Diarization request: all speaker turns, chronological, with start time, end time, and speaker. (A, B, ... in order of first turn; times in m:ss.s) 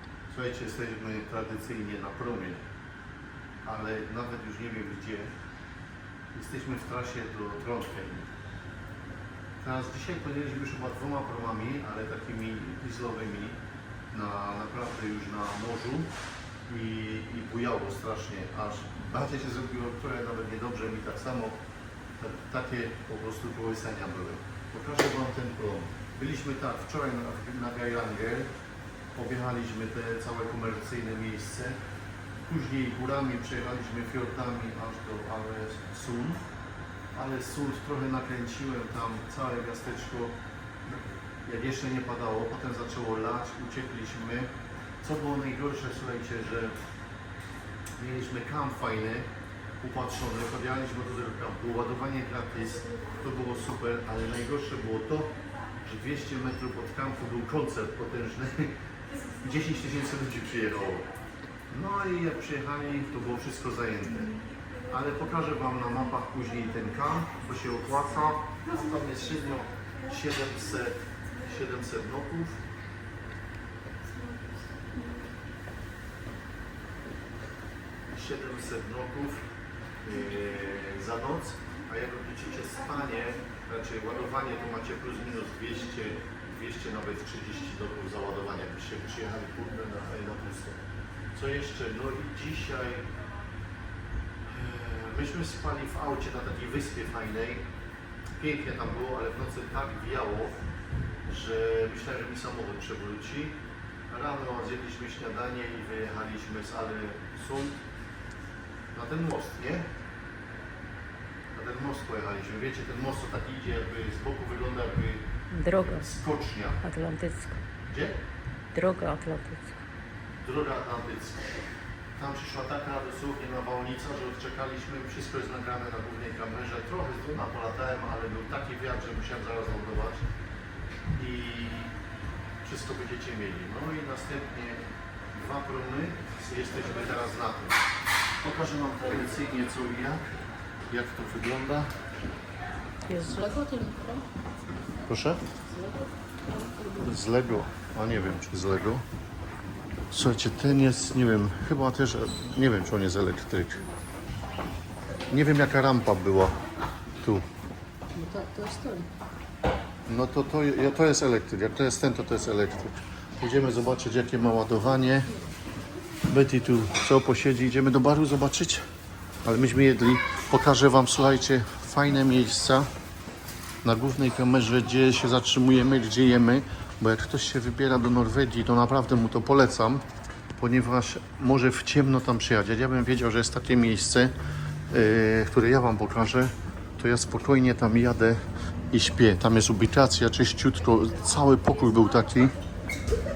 0:00.3-0:02.6 A
0:03.6-0:05.3 A
0:06.3-0:08.3 A
0:09.6-0:13.6 A
0:14.1-0:16.1 A
0:16.7-0:21.6 A
0:22.2-0:28.5 A
0:29.1-0:31.8 A
0:32.5-0:36.4 A
0:37.1-0:40.3 A
0:41.4-0:44.5 A
0:45.0-0:46.7 A
0:48.0-0:49.3 A
0:49.8-0:58.7 A
0:59.3-1:01.1 A
1:01.7-1:04.4 A
1:04.9-1:12.6 A
1:18.1-1:19.4 A
1:20.0-1:30.8 A
1:31.3-1:33.1 A
1:34.5-1:37.6 A
1:38.4-1:40.6 A
1:41.3-1:43.6 A
1:44.1-1:47.8 A
1:48.9-1:49.9 A
1:51.5-1:55.2 A
1:55.5-1:56.1 B
1:55.8-1:56.8 A
1:56.8-1:57.6 B
1:57.9-1:58.2 A
1:58.7-1:59.8 B
2:00.4-2:01.5 A
2:02.2-2:10.2 A
2:11.1-2:11.9 A
2:12.6-2:17.8 A
2:18.4-2:20.2 A
2:20.9-2:21.9 A
2:23.1-2:23.5 B
2:23.2-2:24.2 C
2:25.1-2:25.4 A
2:25.7-2:27.1 C
2:26.9-2:29.0 A
2:30.1-2:33.8 A
2:35.3-2:36.5 A
2:38.1-2:39.1 C
2:40.1-2:45.3 A
2:46.3-2:48.8 A
2:49.4-2:52.9 A
2:53.8-3:00.0 A
3:00.6-3:04.3 A
3:04.9-3:08.4 A
3:08.9-3:12.5 A